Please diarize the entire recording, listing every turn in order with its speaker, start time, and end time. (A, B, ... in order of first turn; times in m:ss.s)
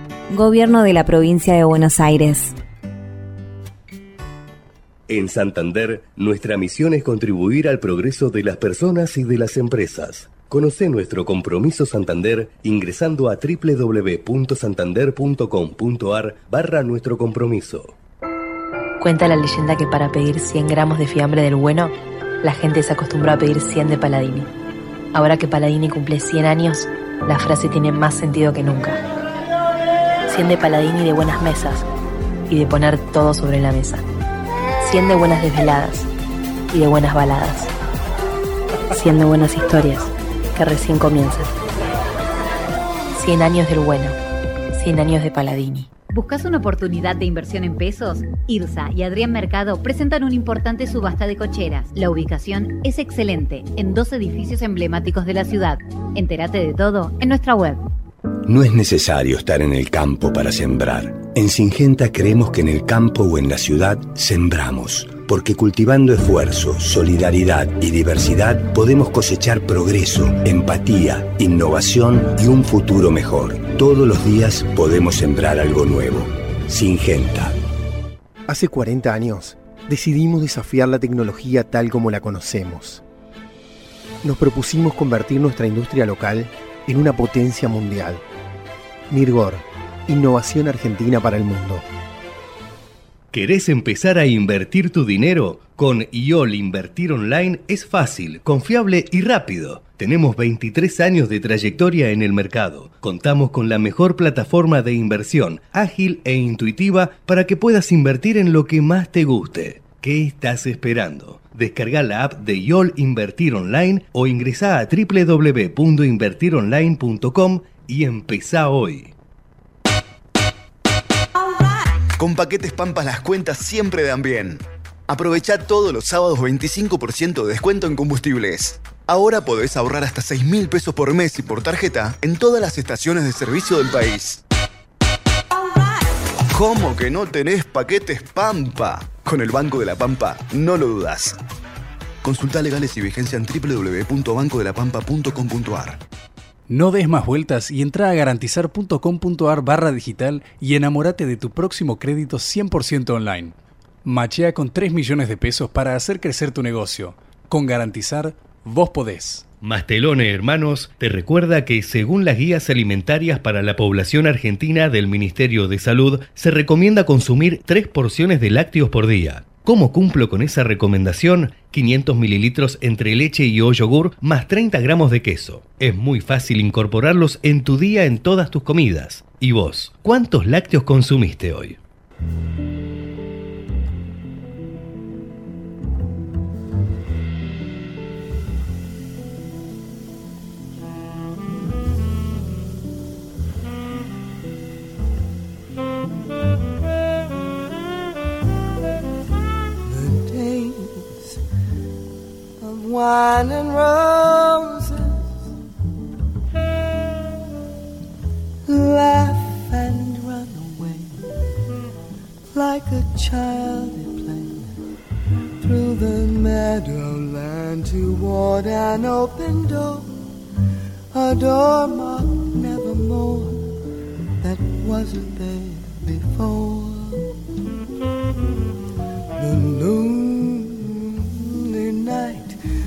0:00.3-0:02.6 A
0:05.1-0:17.9 B
0:19.0-0:24.5 C
0:25.1-0:29.0 C
0:30.3-0:31.9 C
0:32.5-0:34.0 C
0:34.8-0:36.1 C
0:36.7-0:37.7 C
0:38.9-0:41.5 C
0:43.1-0:44.2 C
0:44.7-0:45.9 C
0:46.1-0:57.8 D
0:58.5-1:17.6 E
1:18.5-1:23.0 F
1:24.2-1:28.2 F
1:29.1-1:31.8 F
1:33.3-1:59.1 B
2:02.2-2:14.4 G
2:16.5-2:21.4 G
2:22.2-2:26.0 G
2:26.7-2:39.4 H
2:39.6-3:01.8 B
3:19.8-3:21.4 I
3:22.6-3:25.5 I
3:28.7-3:31.2 I
3:32.5-3:34.8 I
3:35.6-3:40.2 I
3:41.1-3:43.7 I
3:44.4-3:47.2 I
3:49.4-3:52.6 I